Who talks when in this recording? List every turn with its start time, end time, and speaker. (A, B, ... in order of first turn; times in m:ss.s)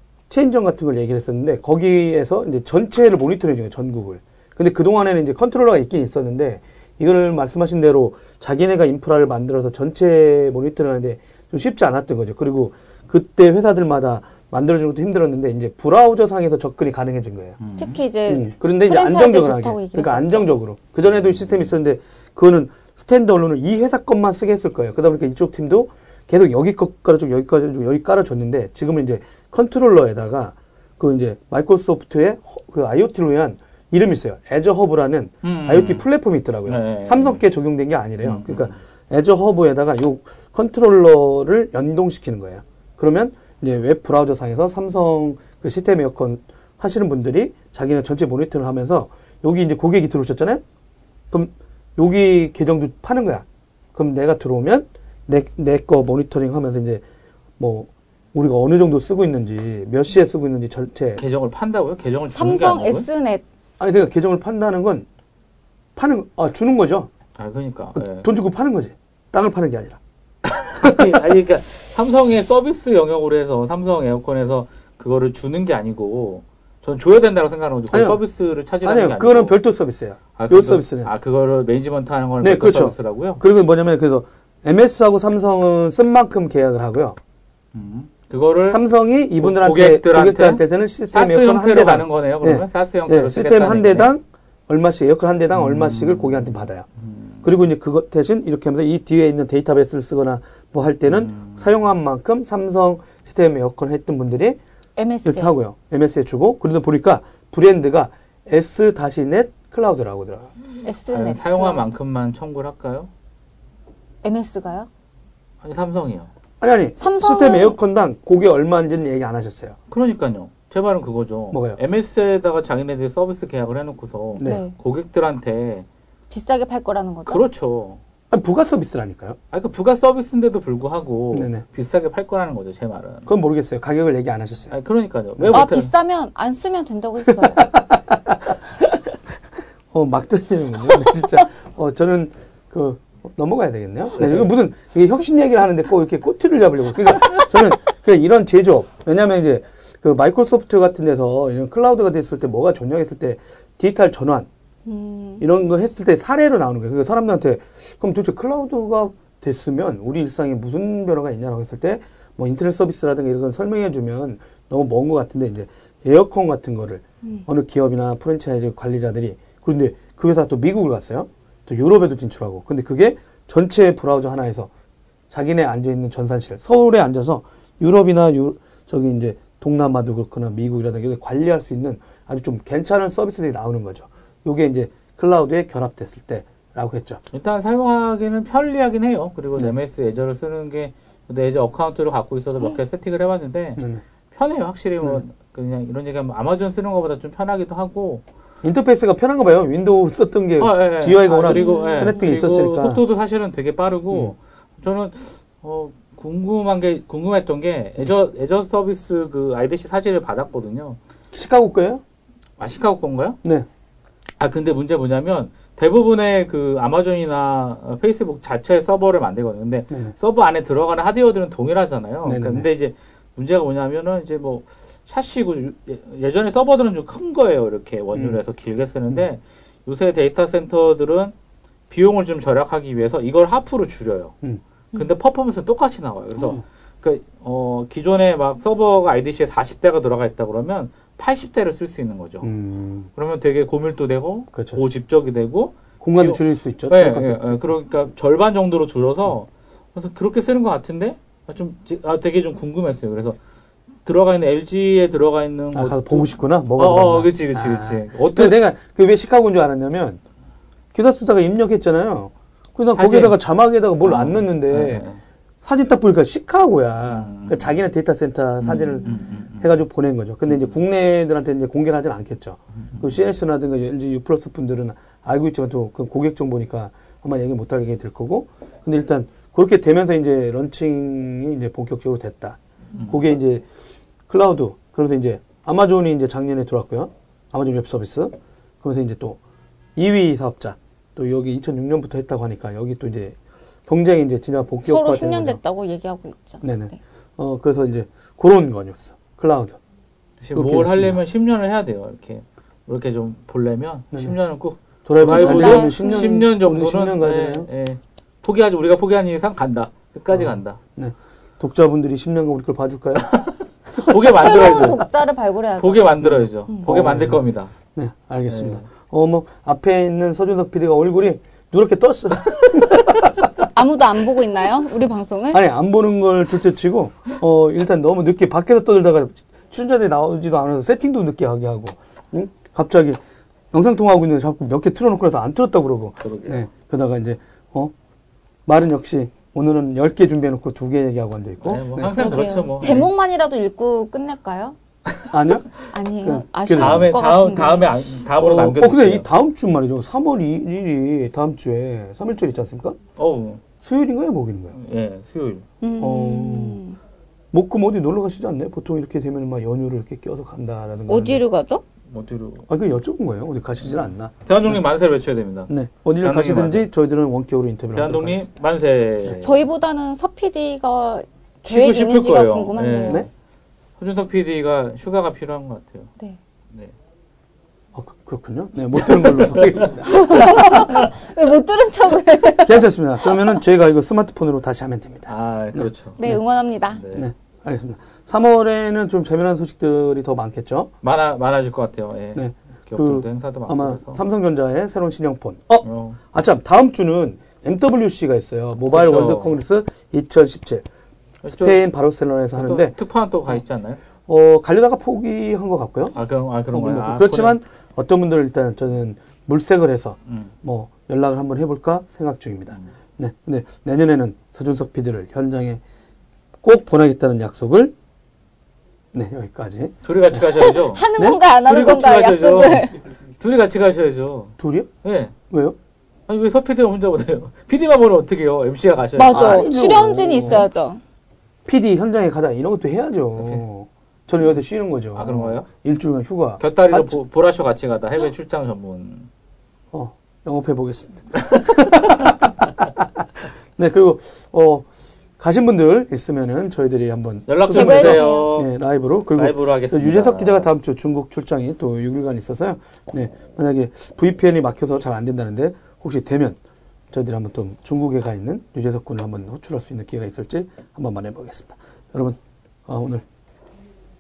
0:00.3-0:17.6 A
0:17.6-0:18.0 B
0:17.8-0:20.5 C
0:18.3-0:50.6 A
0:35.4-0:36.0 B
0:36.7-0:37.4 B
0:38.2-0:38.7 B
0:51.3-0:57.0 A
0:57.6-1:01.2 A
1:01.2-1:03.1 B
1:02.3-1:03.4 C
1:03.8-1:05.1 A
1:06.0-1:07.1 A
1:07.4-1:08.3 B
1:08.0-1:10.0 A
1:10.5-1:19.6 B
1:17.9-1:18.2 A
1:18.8-1:21.1 A
1:20.4-1:23.4 B
1:22.4-1:27.2 A
1:27.7-1:28.8 B
1:28.7-1:36.9 A
1:29.4-1:34.1 B
1:35.5-1:37.4 B
1:37.4-1:44.6 A
1:41.1-1:41.7 B
1:45.0-1:45.5 C
1:45.2-1:50.5 A
1:50.8-1:51.8 C
1:51.1-1:53.1 B
1:54.2-1:54.9 C
1:55.6-1:56.3 B
1:56.6-1:59.8 A
1:57.0-1:57.8 C
1:59.9-2:05.9 B
2:01.5-2:01.8 A
2:04.4-2:04.7 C
2:06.3-2:07.4 C
2:07.3-2:08.0 B
2:08.3-2:09.4 A
2:09.5-2:13.3 B
2:11.3-2:11.6 A
2:13.3-2:14.7 A
2:14.7-2:15.9 B
2:15.4-2:15.7 A
2:15.5-2:17.7 C
2:17.4-2:18.6 A
2:19.9-2:34.5 A
2:24.2-2:24.5 B
2:34.9-2:35.4 C
2:35.4-2:54.7 A
2:55.3-3:07.2 A
3:07.3-3:13.8 B
3:13.8-3:14.0 A
3:14.3-3:18.2 B
3:18.6-3:23.0 A
3:20.6-3:31.0 B
3:21.5-3:22.2 C
3:31.3-3:32.0 A
3:32.6-3:33.4 B
3:34.4-3:51.3 B
3:42.2-3:42.7 A
3:51.9-3:54.4 B
3:54.9-4:02.5 B
4:02.4-4:03.1 A
4:03.2-4:13.4 B
4:04.5-4:04.8 A
4:06.0-4:07.7 A
4:14.0-4:18.6 B
4:15.7-4:20.2 A
4:20.9-4:25.1 A
4:22.9-4:23.4 B
4:24.0-4:25.2 B
4:25.6-4:43.7 A
4:27.1-4:27.7 B
4:28.6-4:29.7 B
4:30.5-4:30.8 B
4:42.9-4:43.2 B
4:44.3-4:49.4 A
4:50.0-4:55.6 A
4:54.8-4:57.0 C
4:56.6-4:59.8 A
5:00.4-5:10.8 B
5:00.5-5:01.2 A
5:05.0-5:07.7 A
5:05.2-5:06.4 C
5:10.4-5:14.2 A
5:14.0-5:15.0 B
5:14.3-5:16.9 C
5:15.8-5:17.7 B
5:16.4-5:17.4 A
5:18.0-5:23.6 A
5:18.5-5:18.8 B
5:23.7-5:25.6 C
5:25.5-5:33.2 A
5:33.7-5:37.9 A
5:36.2-5:36.6 B
5:38.7-5:42.5 A
5:41.6-5:43.1 B
5:42.1-5:44.8 C
5:45.3-5:45.7 A
5:45.9-5:48.0 C
5:46.2-5:47.1 A
5:46.8-5:49.3 B
5:48.4-5:53.0 A
5:53.2-5:53.6 B
5:53.8-5:54.8 A
5:54.7-5:55.7 B
5:55.8-5:57.0 C
5:56.0-5:56.8 A
5:57.5-6:01.4 A
6:01.1-6:01.8 C
6:02.1-6:02.7 B
6:02.7-6:04.8 A
6:03.9-6:05.7 B
6:05.7-6:08.5 A
6:06.2-6:06.9 B
6:07.9-6:09.7 B
6:09.4-6:13.2 C
6:11.7-6:13.3 B
6:14.0-6:16.1 B
6:18.0-6:20.4 A
6:19.0-6:21.1 B
6:20.0-6:23.6 C
6:22.6-6:26.4 A
6:25.3-6:26.3 B
6:26.2-6:27.0 C
6:26.9-6:27.3 B
6:27.1-6:30.9 A
6:31.0-6:34.2 B
6:32.4-6:40.8 A
6:35.8-6:36.2 B
6:38.9-6:39.6 B
6:41.4-6:41.8 B
6:41.6-6:43.0 A
6:42.5-6:44.0 B
6:44.3-6:46.2 A
6:46.1-6:47.6 B
6:46.7-6:55.8 A
6:56.6-6:57.9 A
6:59.1-7:00.4 A
7:00.0-7:01.1 B
7:00.5-7:03.0 C
7:01.6-7:05.3 B
7:04.6-7:04.9 A
7:05.5-7:05.8 A
7:06.3-7:09.7 B
7:09.2-7:11.0 C
7:09.3-7:10.7 A
7:11.7-7:17.2 A
7:13.4-7:13.6 B
7:15.2-7:15.7 B
7:16.6-7:19.3 B
7:19.9-7:23.0 A
7:23.8-7:24.9 A
7:25.4-7:36.6 A
7:27.5-7:28.7 B
7:27.7-7:28.5 C
7:29.3-7:30.7 B
7:37.1-7:43.2 A